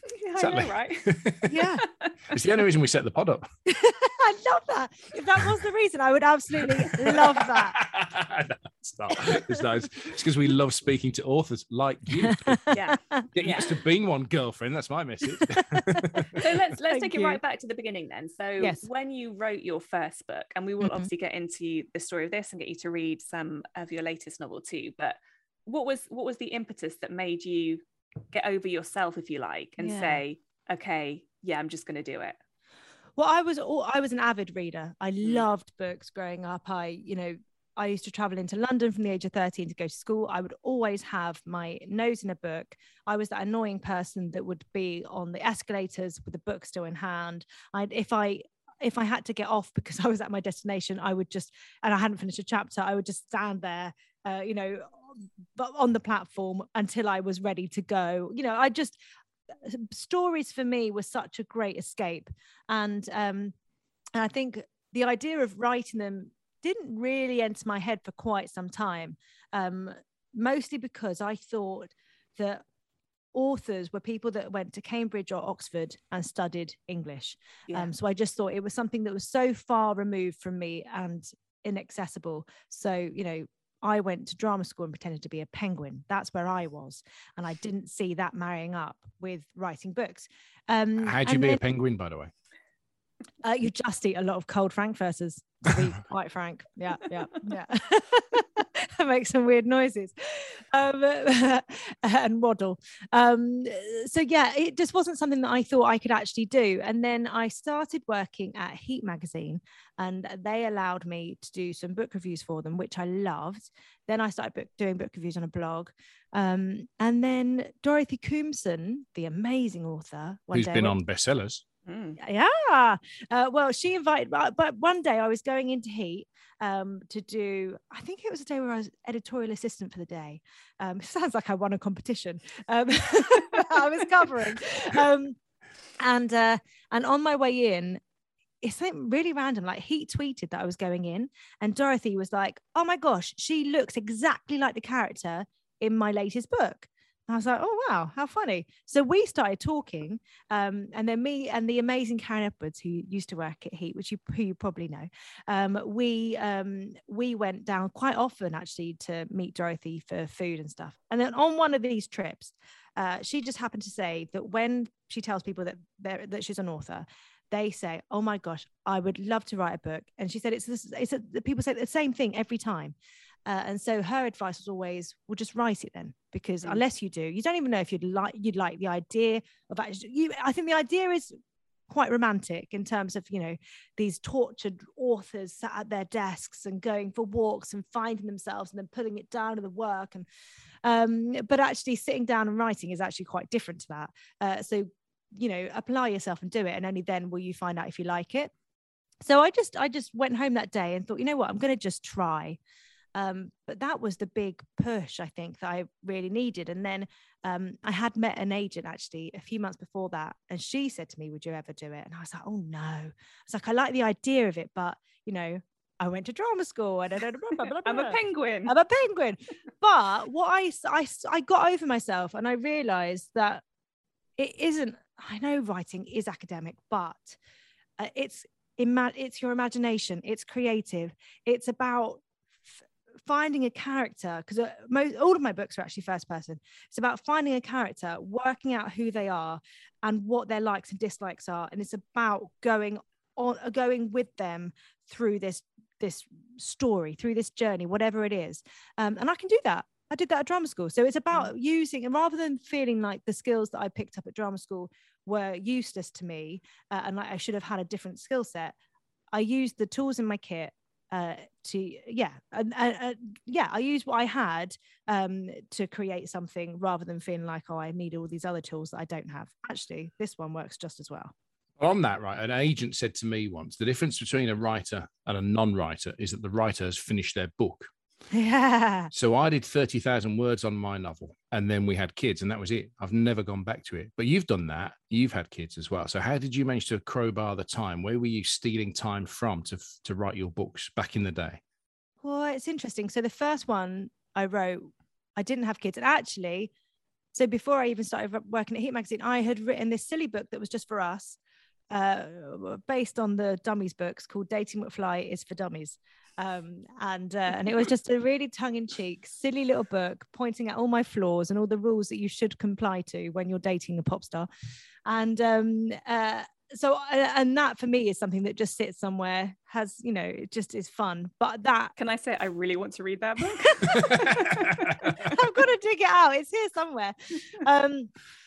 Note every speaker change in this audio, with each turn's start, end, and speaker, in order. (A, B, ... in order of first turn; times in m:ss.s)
0:00.1-0:01.1 A
0:00.4-0:01.7 B
0:01.5-0:01.8 C
0:01.8-0:02.4 A
0:02.3-0:03.4 B
0:03.7-0:07.8 C
0:06.6-0:12.6 B
0:09.1-0:09.6 C
0:12.3-0:13.2 C
0:12.7-0:13.7 A
0:13.3-0:16.4 B
0:15.3-0:17.4 C
0:16.3-0:32.4 A
0:18.6-0:18.8 C
0:20.8-0:21.1 C
0:29.8-0:30.2 C
0:33.2-0:59.0 C
0:59.6-1:03.5 C
1:04.2-1:12.6 C
1:13.3-1:31.6 C
1:31.0-1:32.3 B
1:33.4-2:01.0 C
2:00.5-2:01.6 B
2:01.8-2:02.2 A
2:02.2-2:15.4 C
2:16.0-2:18.0 C
2:18.6-2:52.9 C
2:53.4-3:01.3 C
3:01.9-3:10.2 C
3:10.8-3:18.5 C
3:19.2-3:22.6 C
3:23.1-3:43.6 C
3:37.6-3:38.7 A
3:44.4-3:47.4 C
3:48.0-4:18.7 C
4:19.3-4:31.3 C
4:31.8-4:37.9 B
4:38.3-4:39.1 C
4:39.1-4:51.6 B
4:52.2-4:56.7 C
4:57.3-5:01.4 C
5:01.9-5:14.5 C
5:15.0-5:21.9 C
5:22.0-5:25.4 A
5:23.5-5:28.1 C
5:24.0-5:24.8 B